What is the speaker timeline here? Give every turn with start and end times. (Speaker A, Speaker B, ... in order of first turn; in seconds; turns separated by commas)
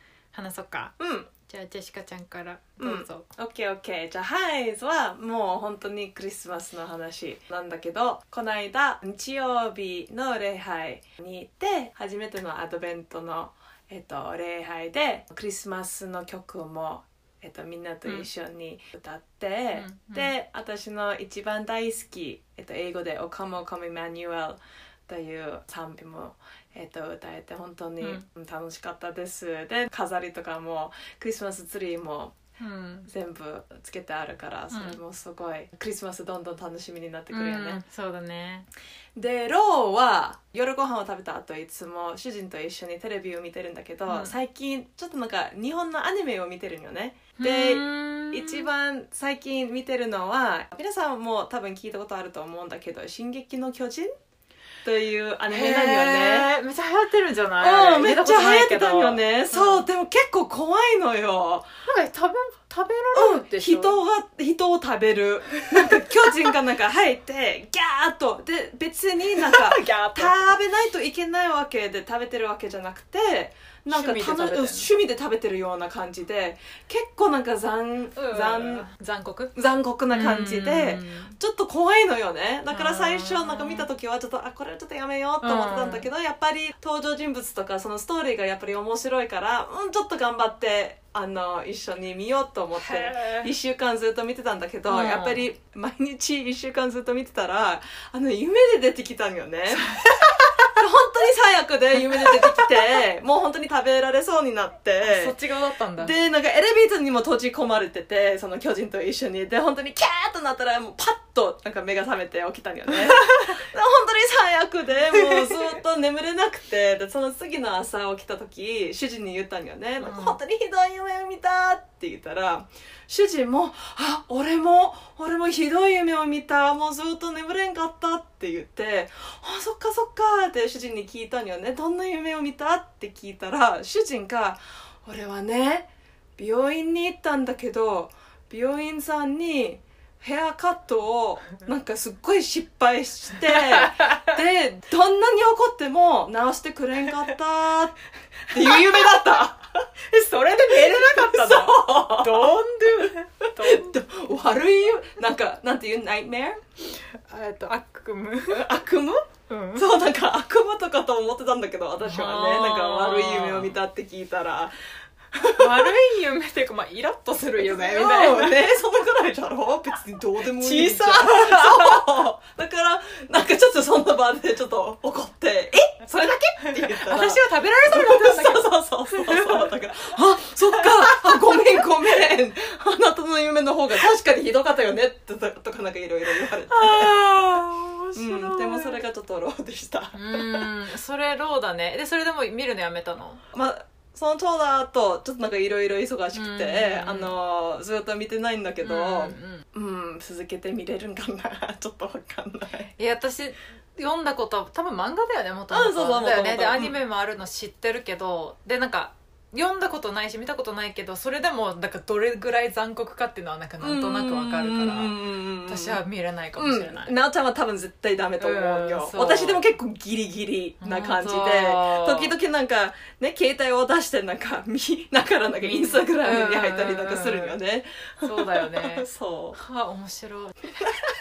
Speaker A: 0.3-0.9, Speaker B: 1.0-1.3, Speaker A: 1.5-3.3, Speaker B: 2.8-32.4, Speaker A: 19.7-20.3, Speaker A: 28.0-28.2, Speaker A: 32.6-33.1, Speaker B: 33.1-37.8, Speaker A: 34.7-35.0, Speaker A: 37.3-38.6, Speaker B: 39.1-54.1, Speaker A: 44.1-44.3, Speaker A: 47.4-48.7, Speaker B: 54.8-56.5, Speaker A: 55.5-59.9, Speaker B: 57.6-61.7, Speaker A: 61.8-64.0, Speaker B: 63.1-78.8, Speaker A: 65.7-66.0, Speaker A: 69.4-70.5, Speaker A: 73.9-74.9, Speaker A: 78.1-79.5, Speaker B: 79.5-100.0, Speaker A: 80.1-81.3, Speaker A: 82.7-83.9, Speaker A: 85.4-86.1, Speaker A: 92.8-93.5, Speaker A: 94.9-95.5, Speaker A: 99.7-100.8, Speaker B: 100.6-105.3, Speaker A: 102.1-102.8, Speaker A: 105.0-106.1, Speaker B: 106.0-148.0, Speaker A: 120.0-120.4, Speaker A: 143.6-144.2, Speaker B: 148.5-149.9, Speaker A: 148.6-149.0, Speaker A: 150.1-154.0, Speaker B: 150.6-156.6, Speaker A: 157.1-158.8, Speaker B: 158.5-164.7, Speaker A: 159.5-159.9, Speaker A: 162.0-163.8, Speaker B: 165.3-165.9, Speaker A: 165.5-168.7, Speaker B: 167.6-187.2, Speaker A: 170.4-172.2, Speaker A: 176.9-179.7, Speaker A: 180.7-181.8, Speaker A: 186.4-189.0, Speaker B: 188.1-190.7, Speaker A: 190.1-193.4, Speaker B: 193.5-202.9, Speaker A: 196.3-197.3, Speaker A: 198.8-199.6, Speaker A: 202.9-217.1, Speaker B: 205.7-207.0, Speaker B: 213.8-216.0, Speaker B: 216.6-229.6, Speaker A: 218.4-219.6, Speaker A: 220.8-222.3, Speaker A: 225.6-227.6, Speaker A: 228.2-230.7